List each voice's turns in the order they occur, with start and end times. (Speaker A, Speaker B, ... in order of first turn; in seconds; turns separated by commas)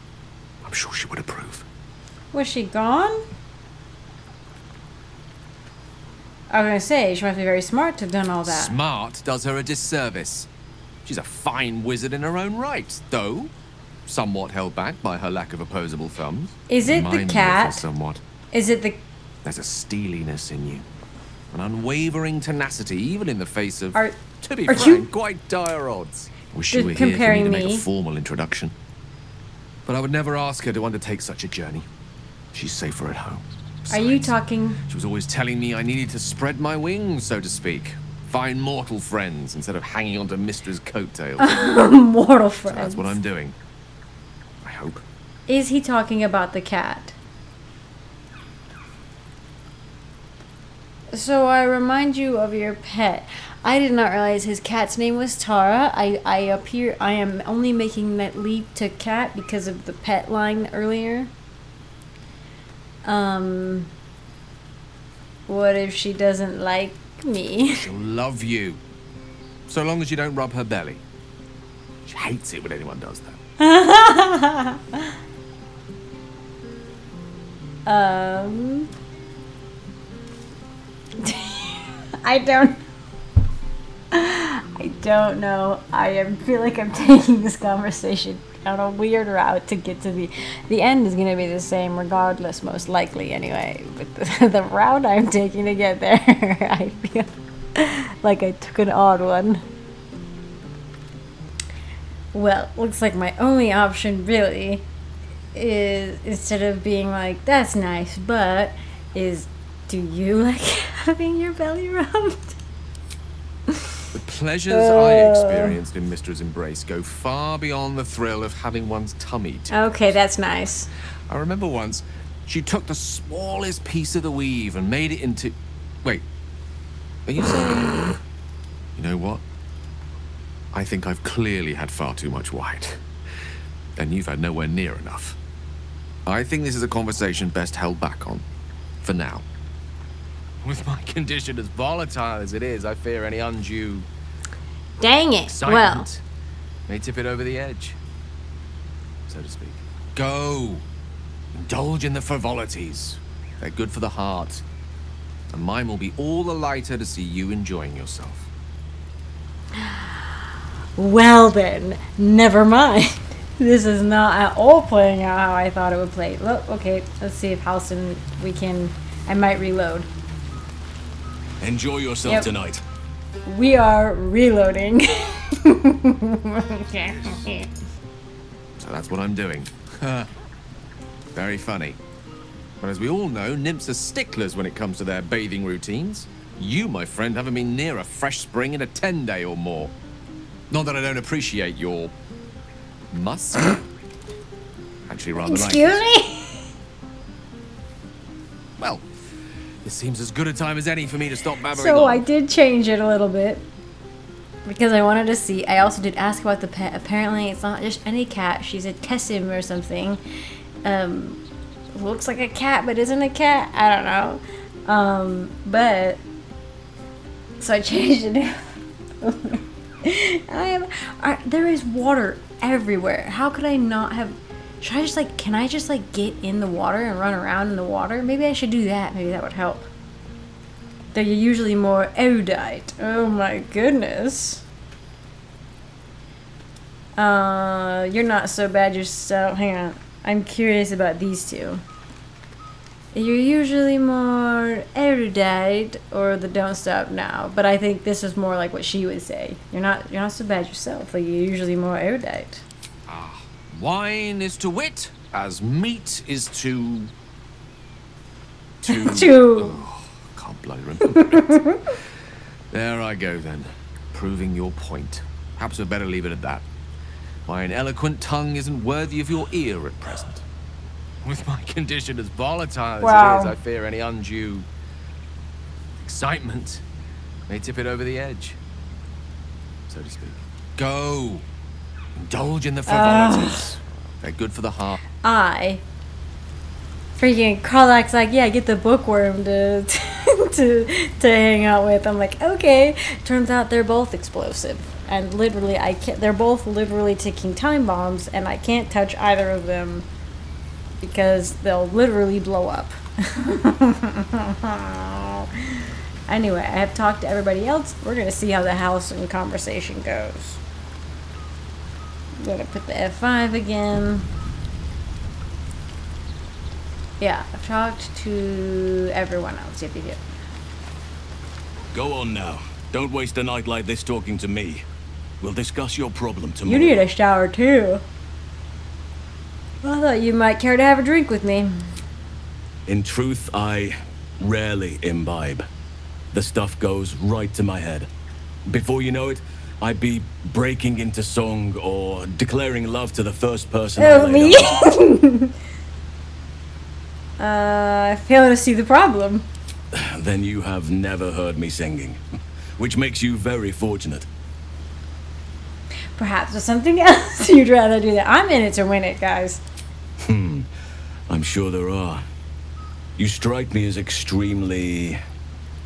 Speaker A: 0.6-1.6, Speaker B: 2.3-3.2, Speaker B: 6.5-8.8, Speaker A: 8.4-10.5, Speaker A: 11.1-13.5, Speaker A: 14.1-18.2, Speaker B: 16.7-17.9, Speaker B: 18.5-19.0, Speaker A: 19.4-20.9, Speaker A: 21.5-28.8, Speaker B: 23.9-25.1, Speaker B: 26.7-27.9, Speaker A: 29.9-31.9, Speaker A: 32.5-34.4, Speaker B: 33.9-34.8, Speaker A: 34.9-41.6, Speaker B: 41.4-43.2, Speaker A: 42.7-43.6, Speaker A: 44.6-45.0, Speaker B: 45.5-47.1, Speaker B: 51.1-61.3, Speaker B: 63.0-63.9, Speaker B: 65.5-67.9, Speaker A: 67.7-68.8, Speaker A: 69.7-71.0, Speaker A: 72.1-73.4, Speaker B: 73.6-75.1, Speaker B: 77.9-78.9, Speaker B: 81.2-82.8, Speaker B: 84.1-99.6, Speaker B: 102.3-104.8, Speaker B: 105.5-112.6, Speaker A: 114.1-119.9, Speaker B: 114.7-115.8, Speaker B: 119.7-120.9, Speaker A: 121.3-126.2, Speaker A: 127.3-128.2, Speaker A: 129.0-129.4, Speaker A: 130.7-133.1, Speaker A: 134.0-135.4, Speaker A: 136.3-138.4, Speaker A: 139.0-139.5, Speaker A: 140.6-144.1, Speaker B: 145.0-146.1, Speaker A: 145.5-146.2, Speaker A: 146.9-148.0, Speaker A: 149.3-150.8, Speaker A: 151.5-154.6, Speaker A: 155.5-158.5, Speaker B: 161.0-170.1, Speaker C: 171.6-172.8, Speaker B: 173.5-177.7, Speaker A: 178.8-180.3, Speaker A: 181.3-182.0, Speaker A: 182.8-189.9, Speaker A: 190.7-192.1, Speaker A: 193.1-193.8, Speaker A: 195.1-196.0, Speaker B: 195.4-196.6, Speaker A: 198.8-199.1, Speaker A: 199.8-202.2, Speaker B: 201.7-203.6, Speaker B: 204.7-210.2, Speaker B: 210.8-211.4, Speaker B: 211.9-216.2, Speaker B: 217.6-218.5, Speaker B: 219.2-229.9, Speaker B: 231.1-234.6, Speaker B: 237.2-241.8, Speaker B: 243.1-252.7, Speaker A: 253.1-257.1, Speaker A: 258.8-261.7, Speaker B: 258.9-259.8, Speaker B: 261.1-261.8, Speaker A: 262.7-266.6, Speaker A: 267.5-270.4, Speaker A: 271.2-274.7, Speaker B: 273.0-273.5, Speaker A: 276.0-276.8, Speaker A: 277.5-278.6, Speaker A: 279.9-281.5, Speaker A: 282.2-285.0, Speaker B: 282.9-283.7, Speaker B: 285.2-285.8, Speaker B: 287.2-300.1, Speaker B: 301.0-305.5, Speaker B: 306.3-310.6, Speaker B: 312.4-314.3, Speaker B: 317.2-320.2, Speaker C: 321.9-324.8, Speaker C: 325.4-327.0, Speaker B: 326.7-328.0, Speaker B: 329.8-331.9, Speaker C: 332.9-335.7, Speaker C: 336.3-338.1, Speaker C: 338.7-344.9, Speaker B: 344.0-345.5, Speaker B: 347.4-349.5, Speaker C: 349.9-352.2, Speaker C: 352.8-354.3, Speaker B: 356.2-359.6, Speaker C: 360.2-360.7, Speaker C: 361.3-362.2, Speaker C: 363.2-365.2